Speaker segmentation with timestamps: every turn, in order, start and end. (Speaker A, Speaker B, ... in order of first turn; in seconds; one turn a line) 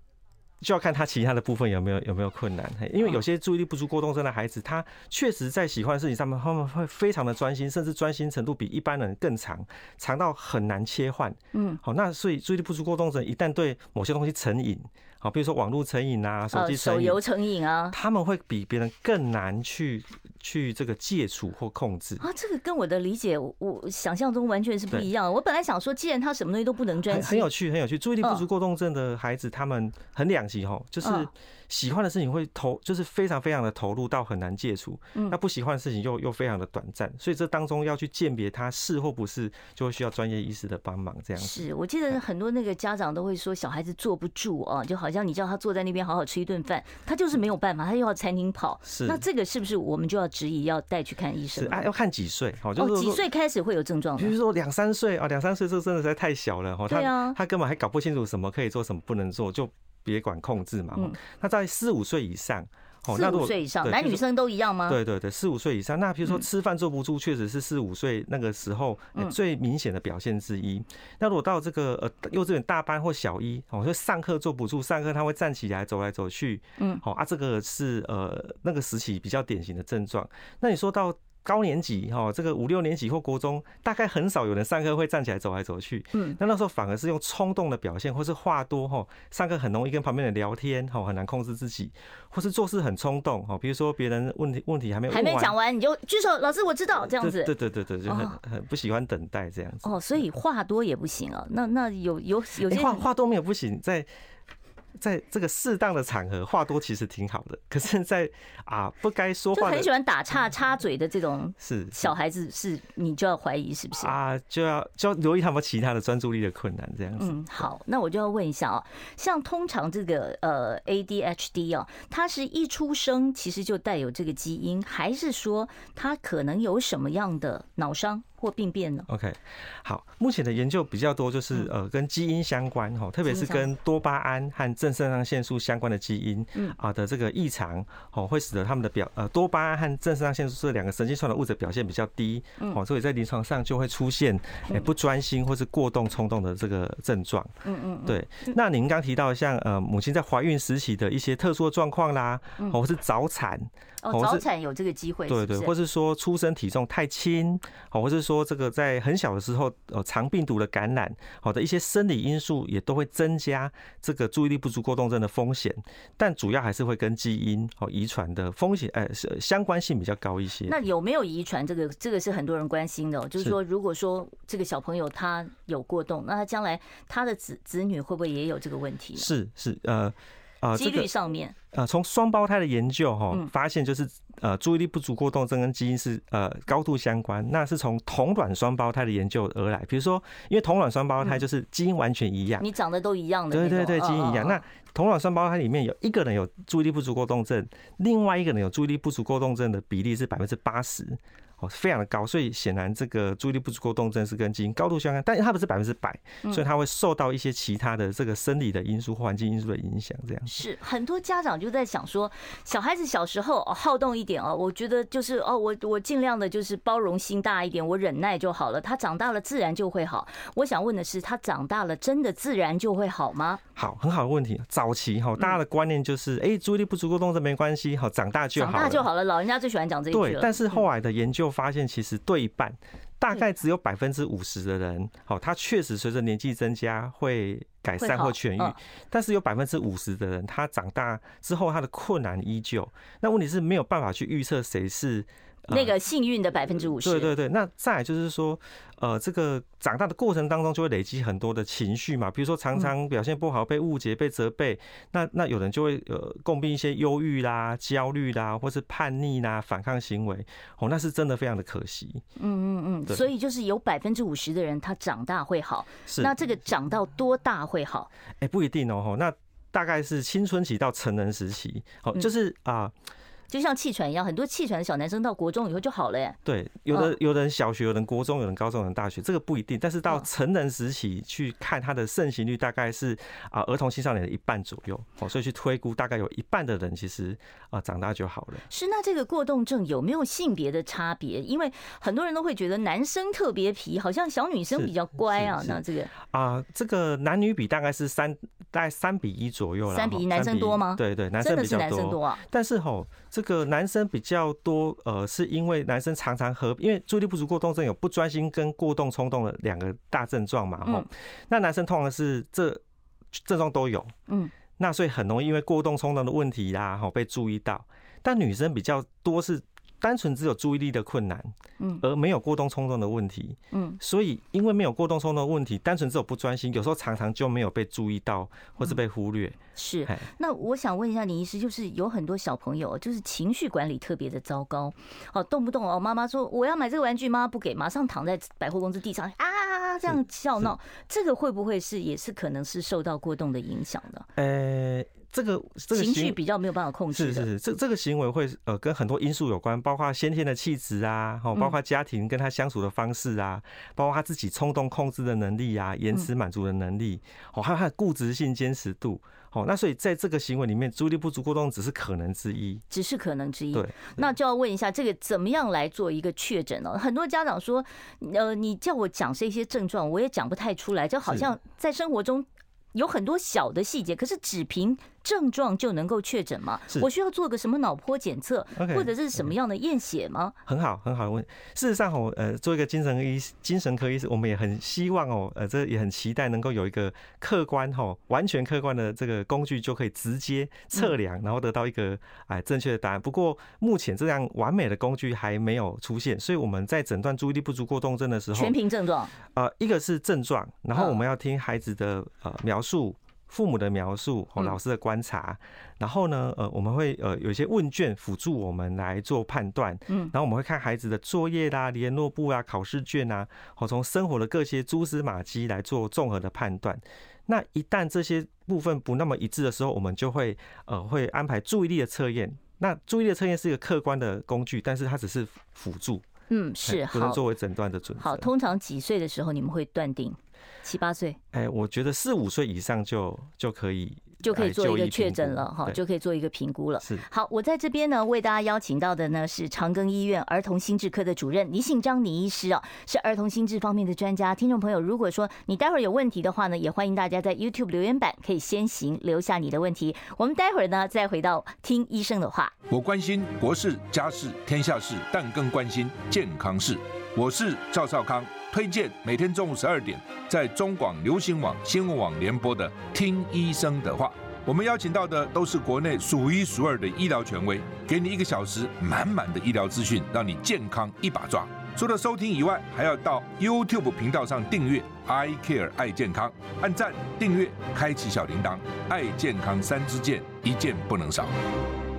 Speaker A: 0.6-17.2
Speaker B: 11.5-11.8
Speaker B: 16.5-17.9
Speaker A: 17.9-22.2
Speaker B: 22.2-27.5
Speaker A: 27.1-41.6
Speaker B: 31.0-31.3
Speaker B: 41.4-51.9
Speaker A: 48.8-49.2
Speaker A: 51.5-53.2
Speaker B: 52.8-54.3
Speaker A: 54.2-64.2
Speaker B: 56.9-57.4
Speaker B: 63.1-65.0
Speaker A: 64.8-95.5
Speaker B: 95.1-97.5
Speaker A: 97.0-99.9
Speaker B: 98.1-98.3
Speaker B: 99.8-103.0
Speaker A: 102.6-104.1
Speaker A: 105.0-109.9
Speaker B: 109.5-114.1
Speaker A: 111.6-112.1
Speaker A: 114.0-117.7
Speaker B: 117.2-129.1
Speaker A: 129.1-147.5
Speaker B: 133.2-133.7
Speaker B: 147.6-148.5
Speaker A: 148.1-154.4
Speaker B: 154.0-155.7
Speaker A: 155.3-170.8
Speaker B: 170.7-179.3
Speaker A: 179.2-181.1
Speaker B: 180.7-181.5
Speaker A: 181.7-192.7
Speaker B: 192.6-194.6
Speaker A: 193.5-210.6
Speaker B: 210.4-223.6
Speaker A: 223.8-229.1
Speaker B: 228.6-230.8
Speaker A: 230.1-245.9
Speaker B: 238.0-238.8
Speaker B: 245.7-247.3
Speaker A: 247.0-262.2
Speaker B: 262.4-268.1
Speaker A: 266.1-266.3
Speaker A: 268.4-272.9
Speaker B: 273.5-276.4
Speaker A: 276.4-288.6
Speaker B: 288.7-296.1
Speaker A: 294.7-312.8
Speaker B: 299.9-302.4
Speaker A: 313.3-314.1
Speaker A: 314.8-330.2
Speaker B: 323.7-324.0
Speaker B: 329.8-344.2
Speaker A: 340.1-340.7
Speaker A: 344.4-346.4
Speaker B: 345.9-347.5
Speaker A: 347.1-362.8
Speaker B: 362.9-380.6
Speaker A: 363.7-364.2
Speaker A: 371.2-371.5
Speaker A: 378.7-379.5
Speaker A: 380.6-398.8
Speaker B: 398.5-399.3
Speaker A: 399.5-426.3
Speaker B: 426.5-427.4
Speaker A: 426.8-428.5
Speaker B: 428.2-431.4
Speaker A: 431.5-436.0
Speaker B: 434.4-452.7
Speaker A: 437.0-437.2
Speaker C: 452.9-481.5